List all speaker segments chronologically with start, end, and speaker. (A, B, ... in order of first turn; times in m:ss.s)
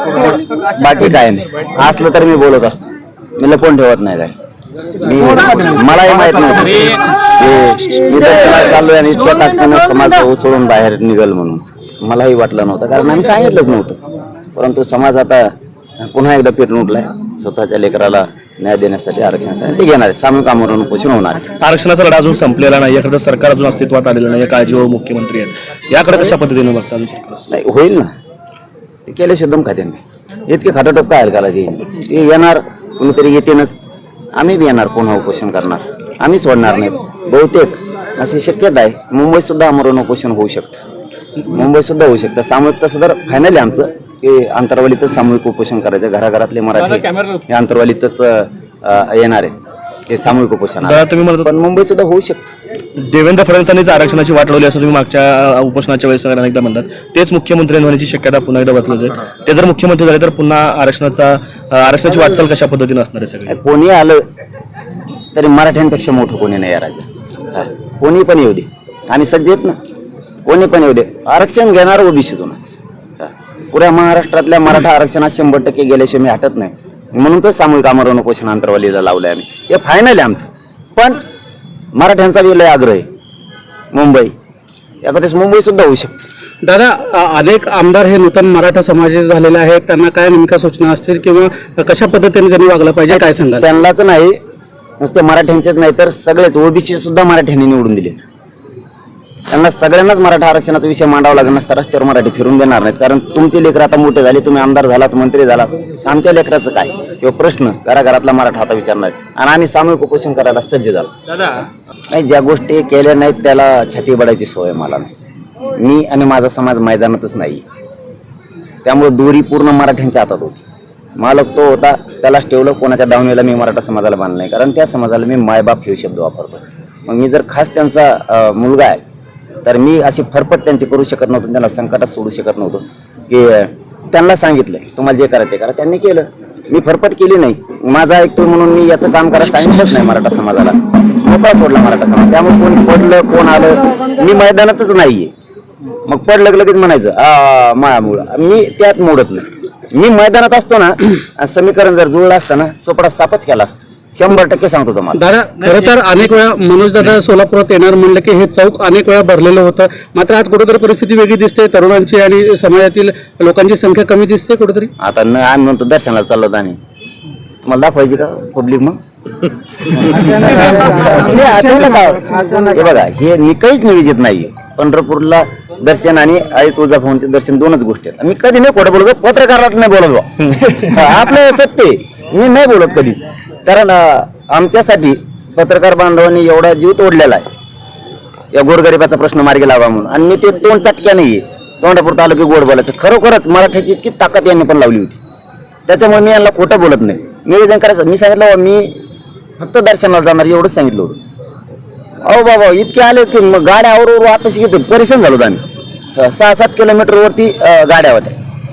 0:00.7-0:04.3 A
0:05.0-0:14.0 A
0:14.6-0:21.5 A
0:21.6-0:27.4 B
0:27.5-0:28.1 A
0:29.1-0:33.7 A
0:34.4-0:40.8 A
0:41.4-0:49.5 A
0:50.1-0:52.5 A
0:50.8-0:51.4 B
0:53.0-1:03.5 B
1:03.4-1:04.2 A
1:05.3-1:09.8 A
1:10.4-1:21.2 A
1:21.9-1:23.0 A
1:23.9-1:24.3 A
1:25.0-1:26.2 A
1:26.6-1:33.6 C
1:33.1-1:34.4 A
1:35.0-1:38.2 A
1:39.5-1:51.1 A
1:52.1-1:55.1 A
1:55.7-1:57.6 A
1:58.8-2:00.6 A
2:01.2-2:09.0 A
2:09.6-2:25.3 A
2:26.0-2:35.2 A
2:35.1-2:44.9 C
2:45.0-2:46.8 A
2:47.6-2:49.0 A
2:50.0-3:07.4 A
3:08.5-3:15.2 A
3:15.9-3:18.9 A
3:19.6-3:21.2 A
3:22.2-3:25.6 A
3:26.2-3:28.3 A